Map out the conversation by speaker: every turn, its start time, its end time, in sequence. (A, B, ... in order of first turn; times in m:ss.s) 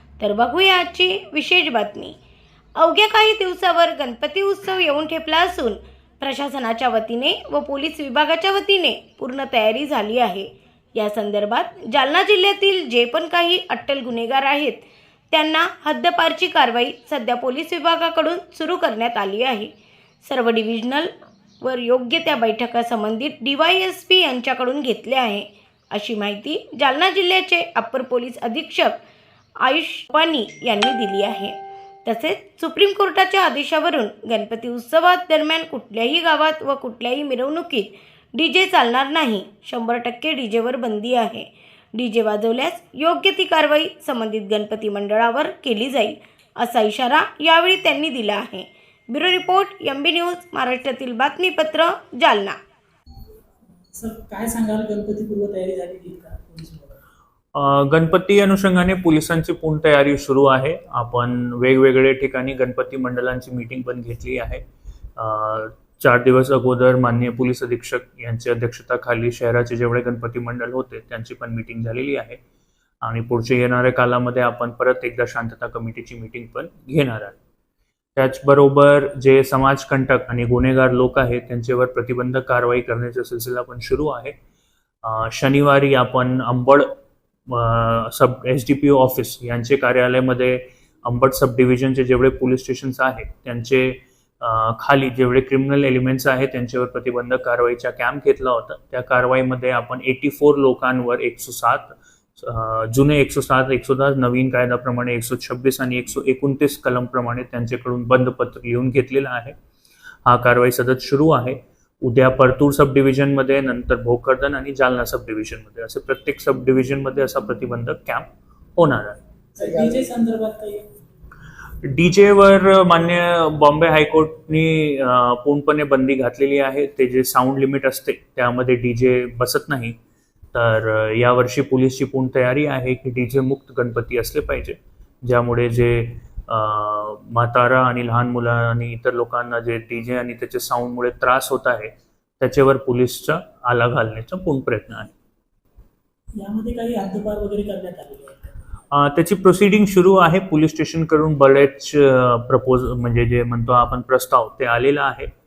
0:00.2-0:02.2 A
0:02.8-0:19.7 A
0:20.2-0:29.0 A
0:29.6-0:52.6 A
0:53.9-0:57.0 B
0:57.5-1:04.6 C
1:05.2-1:12.4 C
1:13.0-1:17.4 C
1:18.2-1:24.4 C
1:25.0-1:26.9 C
1:27.5-1:49.5 C
1:50.2-1:59.2 C
1:59.5-2:00.9 B
2:01.8-2:10.0 C
2:10.5-2:25.1 C
2:26.3-2:28.5 B
2:28.9-2:35.3 C